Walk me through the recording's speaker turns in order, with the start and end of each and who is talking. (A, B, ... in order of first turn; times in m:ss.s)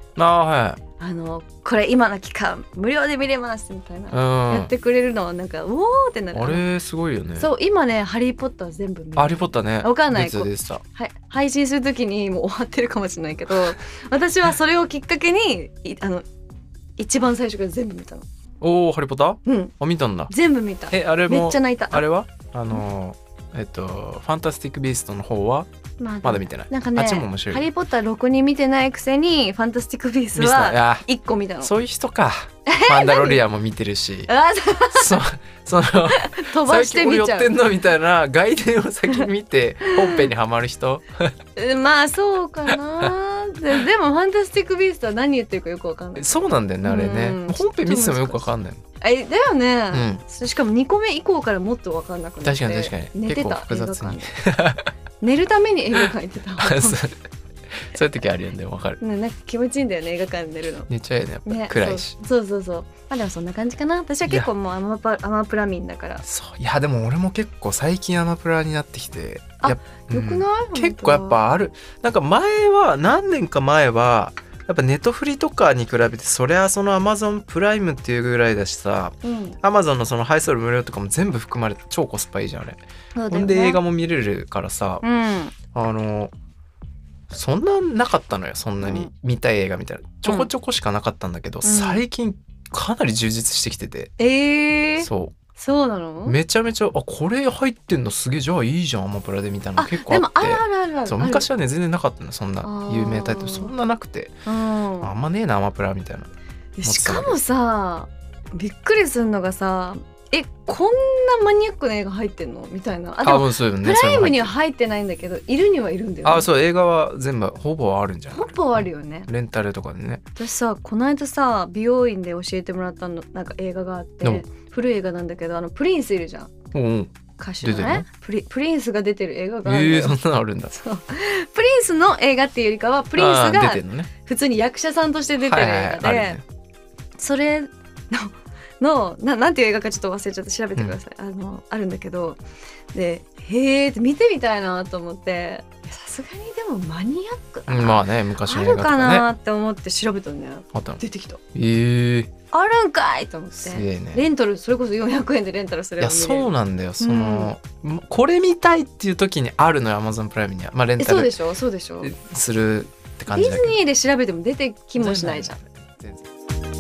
0:00.2-0:00.8 A
0:01.0-0:06.6 B
0:04.1-0:04.7 A
0:06.3-0:07.5 A
0:07.4-0:16.2 B
0:09.2-0:10.8 A
0:17.0-0:18.3 B
0:18.6-0:20.3 A
0:19.4-0:19.7 B
0:20.3-0:22.1 B
0:20.9-0:25.7 A
0:26.0-0:31.7 B
0:26.2-0:27.6 A
0:30.4-0:31.1 A
0:31.6-0:34.3 A
0:32.7-0:33.4 B
0:34.3-0:35.2 B
0:34.9-0:41.3 A
0:36.1-0:37.6 B
0:39.9-0:40.3 B
0:41.6-0:48.5 B
0:42.7-0:43.1 A
0:46.2-0:48.8 A
0:49.0-0:54.4 B
0:49.9-0:50.2 A
0:52.4-0:54.9 A
0:55.2-0:57.1 B
0:56.6-0:57.2 A
0:57.9-0:59.0 A
0:59.0-1:00.9 B
1:00.9-1:02.2 A
1:01.5-1:06.2 B
1:06.2-1:25.0 A
1:09.6-1:11.4 B
1:19.2-1:19.6 B
1:23.2-1:23.8 B
1:25.0-1:25.6 B
1:25.7-1:26.3 A
1:27.3-1:34.1 A
1:28.8-1:29.1 B
1:30.2-1:30.5 B
1:31.6-1:32.0 B
1:34.2-1:36.4 B
1:35.0-1:35.4 A
1:36.3-1:44.4 A
1:39.8-1:41.5 B
1:42.6-1:43.7 B
1:44.5-1:45.1 B
1:45.0-1:46.3 A
1:46.8-1:56.5 B
1:46.8-1:47.4 A
1:53.2-1:54.5 A
1:56.2-2:00.2 A
1:58.3-1:59.3 B
2:00.4-2:06.5 B
2:06.7-2:08.1 A
2:07.4-2:10.2 B
2:09.6-2:10.8 A
2:10.8-2:16.4 B
2:13.2-2:14.1 A
2:15.4-2:16.4 A
2:17.2-2:22.4 B
2:22.9-2:31.4 B
2:27.7-2:29.3 A
2:30.8-2:31.0 A
2:31.6-2:32.3 A
2:32.5-2:37.5 B
2:33.6-2:34.3 A
2:36.0-2:41.3 A
2:41.0-2:42.1 B
2:42.0-2:43.8 A
2:43.3-2:45.6 B
2:45.0-2:46.3 A